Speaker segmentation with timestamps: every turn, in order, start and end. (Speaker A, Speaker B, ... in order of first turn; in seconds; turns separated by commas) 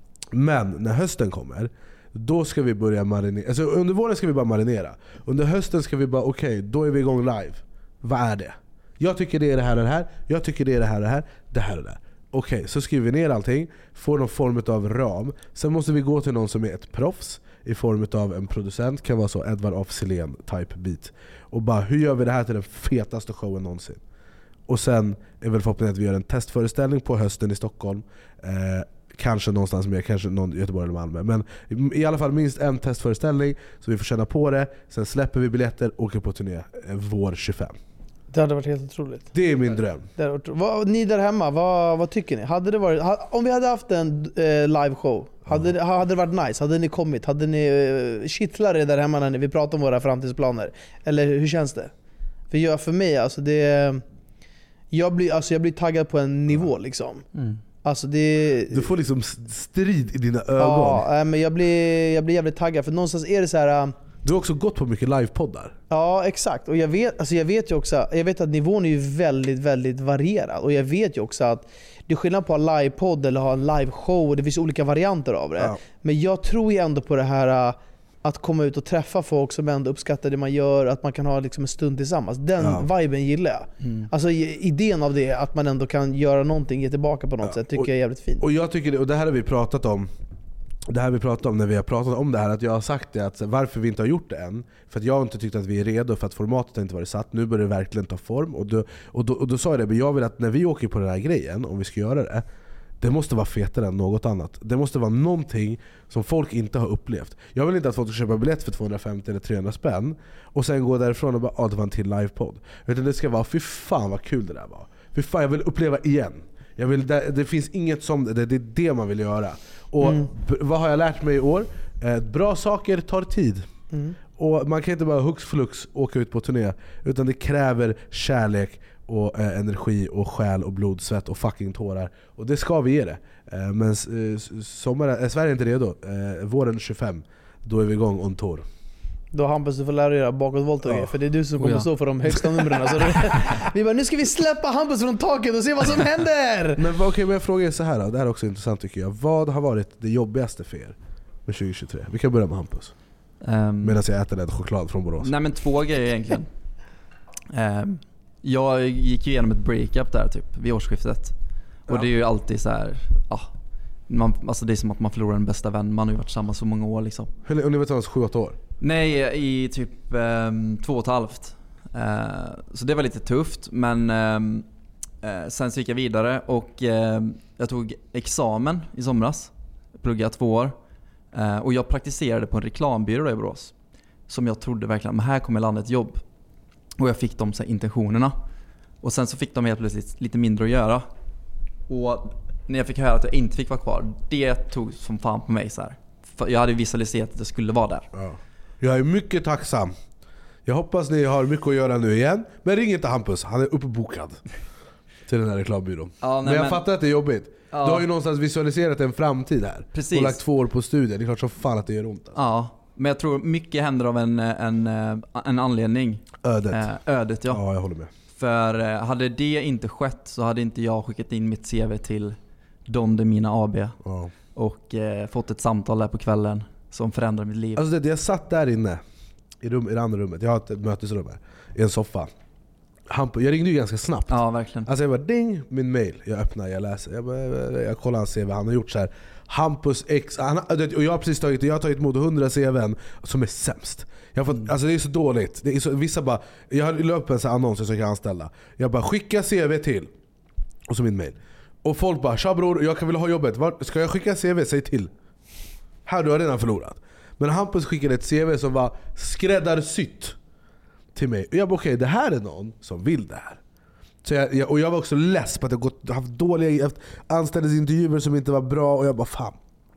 Speaker A: 0.3-24.0, Speaker A: 24.7-37.8, Speaker B: 38.3-39.3, Speaker A: 39.3-40.1, Speaker B: 40.2-51.9, Speaker B: 52.5-54.0, Speaker B: 54.9-57.2, Speaker C: 57.4-57.6, Speaker B: 57.8-58.8, Speaker A: 58.7-61.0, Speaker B: 60.6-63.9, Speaker A: 64.2-65.8, Speaker B: 65.9-88.5, Speaker A: 82.6-82.9, Speaker C: 83.8-84.1, Speaker A: 87.5-87.9, Speaker A: 88.4-90.1, Speaker A: 90.9-102.5, Speaker A: 103.0-123.7, Speaker B: 120.0-120.3, Speaker B: 123.9-124.2, Speaker A: 124.4-138.7, Speaker B: 139.3-146.8, Speaker A: 140.8-141.1, Speaker A: 146.8-152.9, Speaker C: 153.4-154.0, Speaker A: 153.8-155.3, Speaker C: 155.2-156.5, Speaker C: 157.5-161.3, Speaker C: 161.9-163.5, Speaker C: 164.1-167.3, Speaker A: 167.4-168.6, Speaker C: 168.8-174.7, Speaker C: 175.2-180.8, Speaker C: 181.3-183.7, Speaker C: 184.3-186.2, Speaker C: 187.0-188.3, Speaker C: 189.0-191.1, Speaker C: 191.9-198.1, Speaker A: 198.1-200.0, Speaker A: 200.7-204.4, Speaker A: 205.3-212.4, Speaker C: 206.2-206.8, Speaker C: 207.7-208.1, Speaker C: 209.9-210.4, Speaker C: 212.3-217.6, Speaker A: 216.4-216.9, Speaker A: 217.5-218.1, Speaker C: 218.3-222.4, Speaker C: 222.9-224.0, Speaker A: 224.1-224.3, Speaker C: 224.6-227.8, Speaker A: 227.8-229.0, Speaker A: 229.6-232.3, Speaker A: 233.1-250.1, Speaker C: 234.3-234.9, Speaker A: 250.9-255.1, Speaker A: 256.1-260.4, Speaker A: 261.1-263.6, Speaker A: 264.2-269.6